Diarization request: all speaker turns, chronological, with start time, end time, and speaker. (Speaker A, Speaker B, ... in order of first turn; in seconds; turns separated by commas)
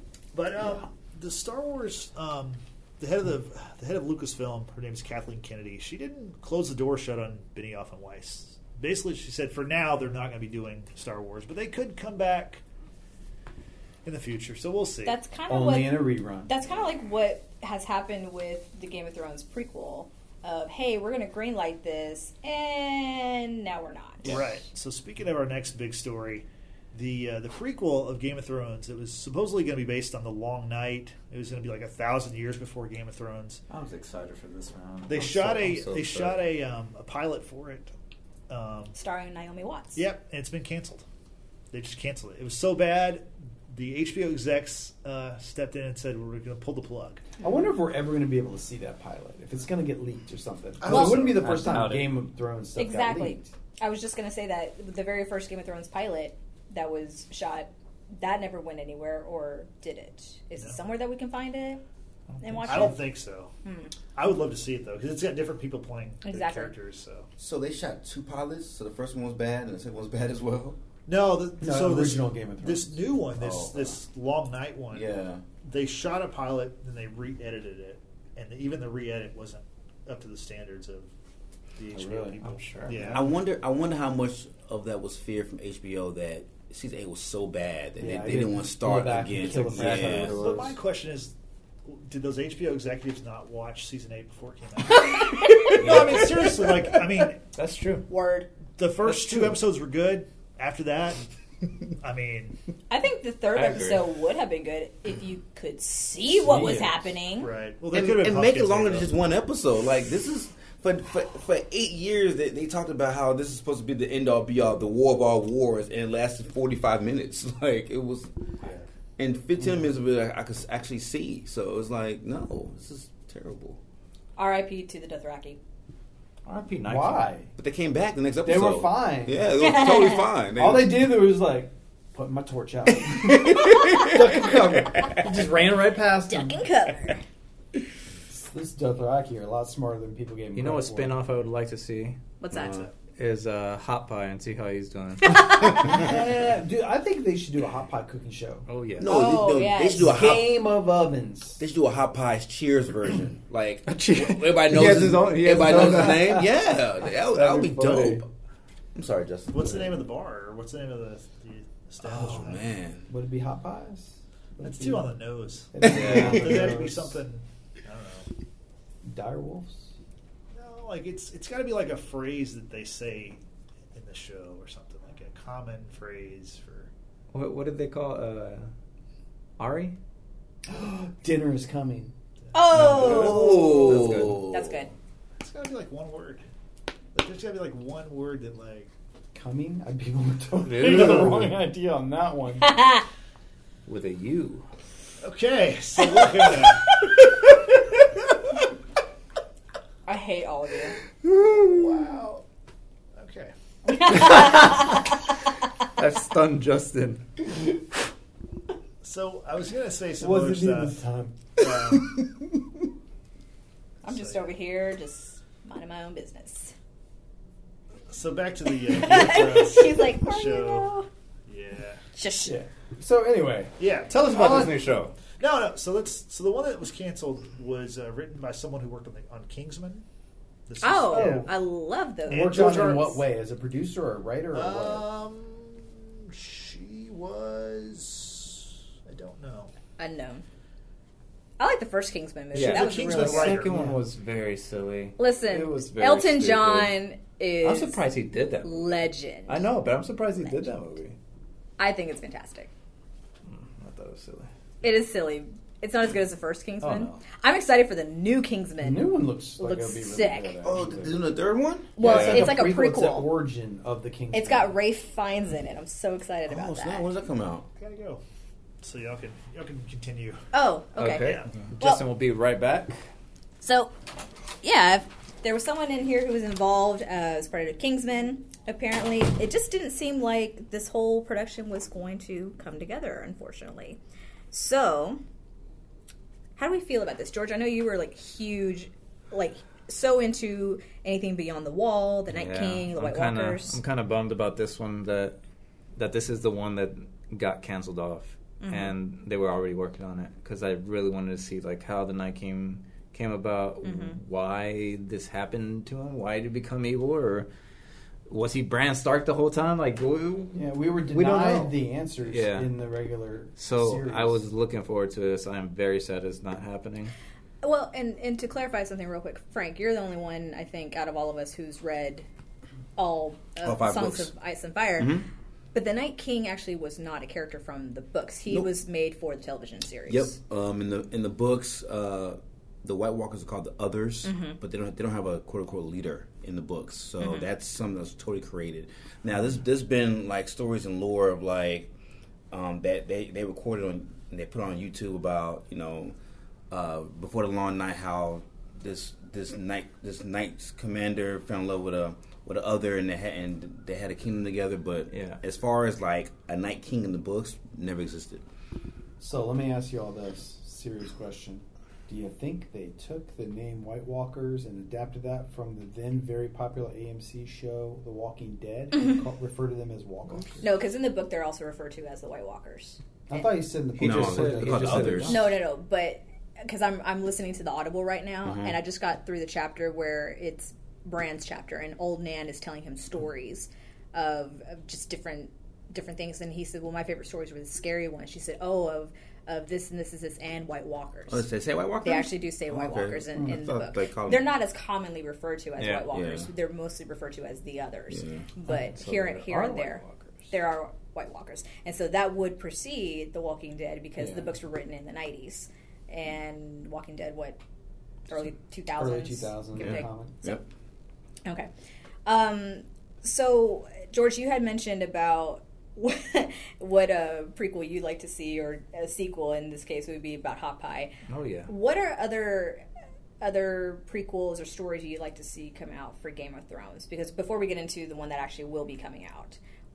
Speaker A: 0.3-12.6, Speaker A: 14.0-15.2, Speaker B: 15.0-24.4, Speaker C: 15.5-16.5, Speaker A: 24.2-33.6, Speaker D: 33.7-36.4, Speaker A: 35.1-37.9, Speaker A: 38.5-39.0, Speaker B: 38.9-40.0, Speaker A: 39.9-41.0, Speaker A: 41.7-47.2, Speaker C: 47.4-53.5, Speaker A: 50.8-51.8, Speaker B: 50.9-51.2, Speaker D: 51.3-52.2, Speaker B: 52.8-61.8, Speaker D: 62.3-63.0, Speaker B: 62.4-63.0, Speaker A: 62.6-63.5, Speaker B: 63.6-63.9, Speaker A: 64.1-67.3, Speaker B: 66.2-66.7, Speaker E: 67.4-70.8, Speaker A: 71.0-75.1, Speaker C: 71.6-73.1, Speaker E: 73.3-74.0, Speaker E: 74.9-75.4, Speaker A: 75.6-81.1, Speaker A: 81.8-83.2, Speaker D: 82.1-83.2, Speaker E: 83.1-90.4, Speaker C: 88.0-90.6, Speaker D: 89.4-90.8, Speaker A: 90.2-91.3, Speaker A: 91.8-97.4, Speaker D: 95.7-96.3, Speaker D: 97.5-98.1, Speaker B: 98.1-98.5, Speaker A: 98.8-101.2, Speaker A: 102.0-102.5, Speaker B: 102.9-107.5, Speaker D: 103.5-104.0, Speaker C: 106.3-107.2, Speaker A: 107.3-109.1, Speaker E: 107.9-118.3, Speaker E: 119.2-123.8, Speaker B: 124.4-125.6, Speaker D: 126.5-127.3, Speaker C: 126.8-127.5, Speaker E: 127.5-131.1, Speaker C: 128.4-129.5, Speaker B: 129.6-130.3, Speaker C: 130.6-136.7, Speaker E: 133.0-135.2, Speaker B: 136.3-137.2, Speaker C: 138.3-141.2, Speaker D: 140.5-142.2, Speaker B: 142.4-142.9, Speaker E: 142.5-142.9, Speaker D: 143.2-145.6, Speaker B: 145.3-145.7, Speaker C: 145.7-148.7, Speaker D: 148.7-149.1, Speaker E: 149.0-150.5, Speaker B: 149.0-150.6, Speaker C: 150.0-151.6, Speaker E: 151.6-158.3, Speaker D: 153.9-156.4, Speaker C: 155.5-156.4, Speaker D: 157.1-158.2, Speaker E: 158.9-160.0, Speaker A: 159.5-162.7, Speaker E: 162.0-163.1, Speaker C: 163.1-165.1, Speaker A: 164.6-168.3, Speaker C: 165.7-167.1, Speaker D: 165.8-166.6, Speaker E: 166.0-166.3, Speaker C: 169.0-169.9, Speaker A: 170.5-173.4, Speaker A: 173.9-176.9, Speaker D: 177.3-178.7, Speaker D: 179.6-179.9, Speaker C: 180.7-182.1, Speaker A: 182.5-183.3, Speaker B: 182.5-184.9, Speaker E: 182.7-184.8, Speaker D: 183.3-184.4, Speaker A: 185.4-186.4, Speaker A: 187.1-188.9, Speaker C: 189.3-192.8, Speaker D: 190.6-191.5, Speaker B: 192.6-193.1, Speaker D: 193.8-194.7, Speaker A: 195.2-197.0, Speaker B: 200.1-201.0, Speaker A: 201.6-202.2, Speaker A: 203.1-204.4, Speaker B: 203.8-205.1, Speaker D: 204.2-205.0, Speaker D: 206.0-207.6, Speaker A: 209.0-211.0, Speaker C: 210.2-211.6, Speaker A: 211.6-212.2, Speaker A: 214.0-214.5, Speaker B: 214.0-216.7, Speaker A: 218.1-220.9, Speaker B: 218.8-221.1, Speaker A: 221.4-222.0, Speaker B: 222.2-222.5, Speaker C: 222.4-223.7, Speaker A: 223.8-230.0, Speaker D: 224.1-225.2, Speaker A: 230.7-231.5, Speaker B: 230.8-233.0, Speaker C: 231.1-231.5, Speaker A: 232.3-233.2, Speaker C: 232.3-235.1, Speaker A: 234.5-239.7, Speaker B: 240.0-240.4, Speaker B: 241.6-243.6, Speaker D: 242.5-247.0, Speaker A: 242.5-243.8, Speaker C: 243.7-244.0, Speaker B: 245.2-248.0, Speaker D: 247.6-248.9, Speaker B: 248.6-249.7, Speaker D: 249.5-251.2, Speaker B: 251.8-252.7, Speaker D: 253.5-254.5, Speaker B: 254.8-260.6, Speaker D: 256.8-257.2, Speaker C: 258.8-261.2, Speaker E: 260.6-261.9, Speaker B: 262.0-263.3, Speaker C: 262.0-264.8, Speaker D: 262.0-262.6, Speaker B: 264.3-267.1, Speaker E: 266.5-267.7, Speaker A: 267.8-268.2, Speaker A: 268.8-270.4, Speaker B: 270.5-272.0, Speaker D: 270.9-273.0, Speaker A: 271.0-271.5, Speaker B: 273.6-273.9, Speaker B: 274.6-284.0, Speaker B: 284.5-285.2, Speaker B: 286.6-293.8, Speaker D: 292.3-295.4, Speaker D: 295.9-307.5, Speaker B: 298.6-298.9, Speaker B: 303.8-304.2, Speaker D: 308.3-312.7, Speaker C: 310.5-314.4, Speaker D: 313.6-317.1, Speaker B: 317.6-322.2, Speaker B: 322.9-325.2, Speaker E: 323.6-324.3, Speaker E: 325.0-325.2, Speaker B: 325.7-330.4, Speaker E: 330.1-341.9, Speaker B: 334.2-334.6, Speaker B: 337.2-337.5, Speaker E: 342.5-346.1, Speaker E: 346.7-358.4, Speaker D: 355.1-355.4, Speaker C: 359.2-370.6, Speaker B: 370.6-373.4, Speaker C: 373.3-375.5, Speaker E: 374.0-375.4, Speaker D: 374.0-375.5, Speaker B: 375.3-391.4, Speaker E: 378.4-378.8, Speaker E: 391.3-394.4, Speaker B: 392.0-407.6, Speaker D: 395.8-396.0, Speaker E: 396.1-396.5, Speaker E: 398.1-398.4, Speaker D: 398.7-400.4, Speaker B: 408.3-410.6, Speaker C: 408.9-410.4, Speaker E: 409.8-410.6, Speaker B: 412.2-421.1, Speaker D: 421.3-421.7, Speaker B: 421.6-422.8, Speaker B: 423.4-429.6